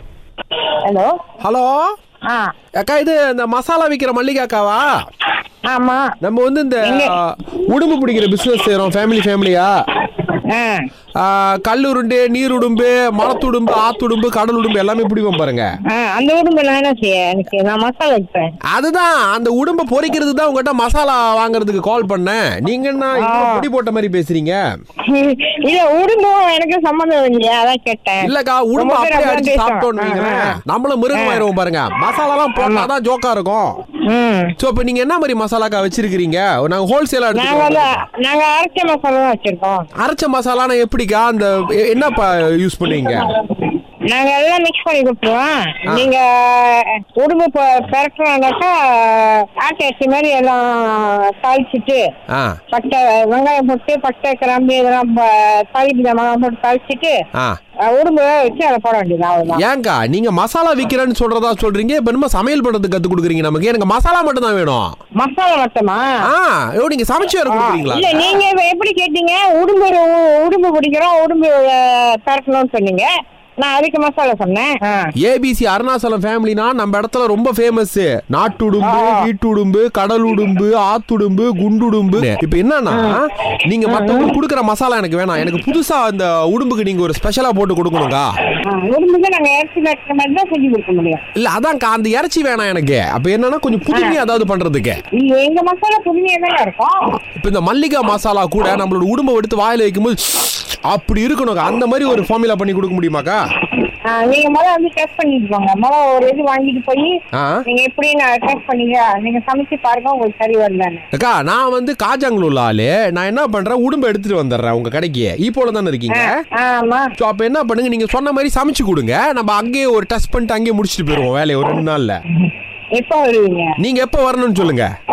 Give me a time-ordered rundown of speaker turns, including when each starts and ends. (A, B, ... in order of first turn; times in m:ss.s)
0:00.8-0:01.2 A
0:01.4-0:01.9 B
0:02.8-0:04.9 B
0:05.7-0:06.1 A
0:06.2-0:09.7 B
0:06.8-0:07.2 A
0:10.2-0:10.9 A
0:11.2-0:15.7 B
0:15.9-0:18.5 A
0:18.7-0:24.6 B
0:23.2-0:23.7 A
0:25.0-0:30.6 A
0:28.2-0:33.8 B
0:31.1-0:31.4 A
0:32.6-0:32.9 A
0:34.1-0:34.5 A
0:34.6-0:38.0 B
0:37.4-0:39.9 A
0:40.0-0:43.3 B
0:42.9-0:52.0 A
0:52.3-0:52.6 B
0:52.7-0:57.2 A
0:57.9-0:59.6 A
0:59.5-1:05.0 B
1:05.2-1:06.1 A
1:06.3-1:08.4 B
1:07.5-1:13.1 A
1:13.6-1:15.1 A
1:15.2-1:28.3 B
1:18.8-1:19.3 A
1:22.9-1:23.2 A
1:23.9-1:24.3 A
1:28.6-1:31.2 A
1:31.4-1:35.0 B
1:33.9-1:34.2 A
1:35.2-1:37.0 A
1:37.4-1:43.4 B
1:44.1-1:47.1 A
1:47.3-1:47.6 B
1:47.7-1:51.0 A
1:51.1-1:56.4 B
1:56.1-1:57.1 A
1:57.2-2:02.2 B
2:02.4-2:03.7 A
2:03.8-2:04.9 B